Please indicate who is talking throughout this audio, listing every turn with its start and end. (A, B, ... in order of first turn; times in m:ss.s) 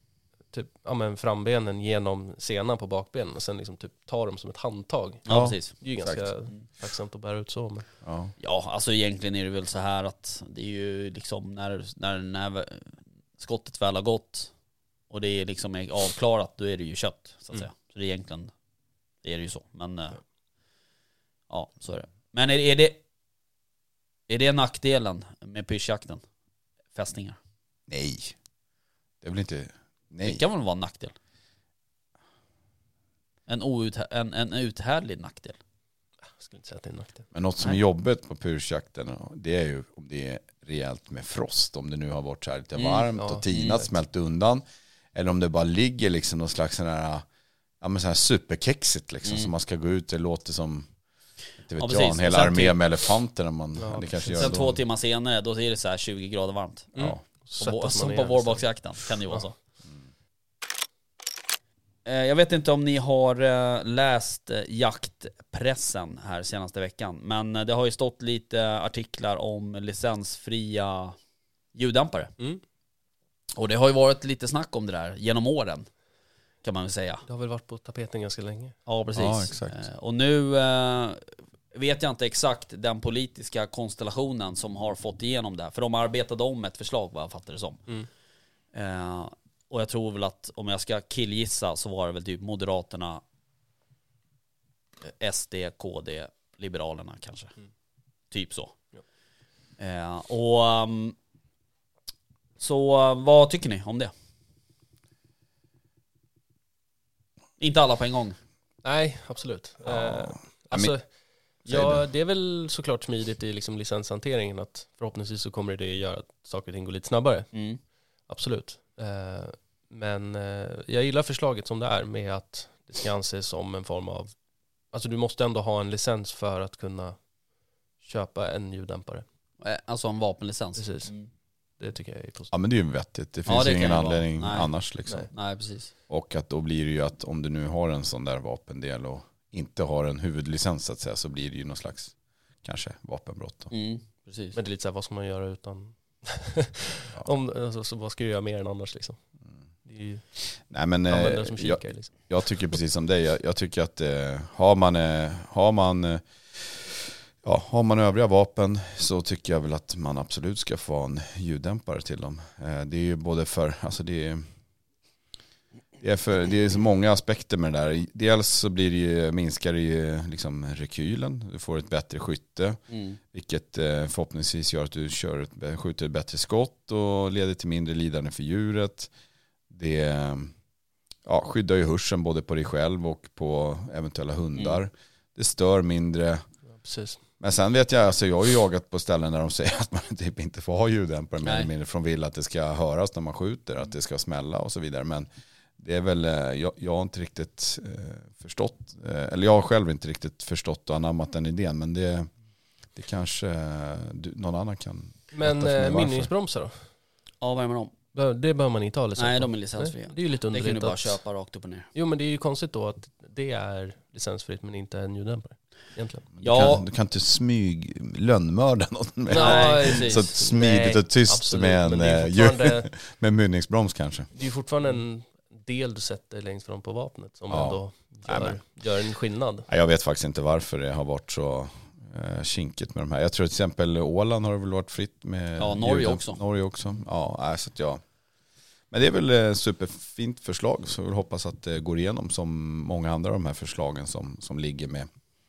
0:00.5-0:05.2 A
0:05.2-0:05.7 B
0:05.3-0:06.2 C
0:05.8-0:07.9 A
0:08.0-0:08.3 C
0:08.4-0:14.5 B
0:15.1-0:18.5 B
0:19.2-0:20.2 B
0:21.5-0:23.0 B
0:24.3-0:26.2 B
0:26.9-0:27.4 B
0:27.9-0:28.3 C
0:29.2-0:30.4 C
0:30.2-0:31.1 B
0:33.5-0:35.6 B
0:36.3-0:37.2 A
0:37.3-0:44.6 C
0:42.8-0:43.8 B
0:43.2-0:43.5 A
0:45.1-0:47.2 C
0:47.8-0:50.9 C
0:49.2-0:49.5 B
0:51.6-0:54.8 C
0:51.8-0:52.8 B
0:53.8-0:54.5 A
0:54.4-0:56.9 B
0:56.9-0:58.6 A
0:57.6-0:59.5 B
1:02.0-1:11.2 B
1:11.7-1:12.3 B
1:13.5-1:15.9 B
1:16.6-1:17.2 B
1:17.2-1:18.7 A
1:18.8-1:27.8 B
1:19.1-1:19.8 C
1:28.7-1:33.2 B
1:35.0-1:37.5 B
1:38.3-1:38.8 B
1:39.8-1:41.2 B
1:42.6-1:44.1 B
1:47.6-1:48.4 B
1:48.8-1:51.0 A
1:49.8-1:50.9 C
1:51.6-1:52.0 C
1:51.6-1:57.5 A
1:57.5-1:57.8 B
1:58.3-2:04.3 A
2:04.9-2:07.2 A
2:08.0-2:09.2 A
2:09.6-2:11.3 B
2:10.8-2:11.1 A
2:11.8-2:12.5 A
2:12.5-2:15.3 C
2:13.4-2:14.7 B
2:15.3-2:15.9 B
2:16.1-2:23.7 C
2:23.7-2:24.6 B
2:24.5-2:29.2 A
2:29.8-2:30.2 A
2:30.6-2:44.4 C
2:31.1-2:32.1 A
2:46.0-2:52.8 C
2:52.9-2:53.2 B
2:53.3-2:59.1 C
2:59.7-3:00.5 C
3:01.2-3:06.4 C
3:06.8-3:07.2 A
3:07.4-3:15.3 C
3:15.8-3:22.3 C
3:22.9-3:26.3 C
3:25.3-3:26.7 A
3:27.4-3:27.9 B
3:28.1-3:31.2 A
3:29.2-3:31.9 B
3:31.9-3:36.3 A
3:36.4-3:44.3 C
3:36.4-3:36.8 B
3:39.3-3:42.9 A
3:39.3-3:40.3 B
3:44.3-3:49.7 A
3:47.5-3:48.6 C
3:49.7-3:58.0 C
3:55.6-3:56.4 B
3:58.9-4:05.1 C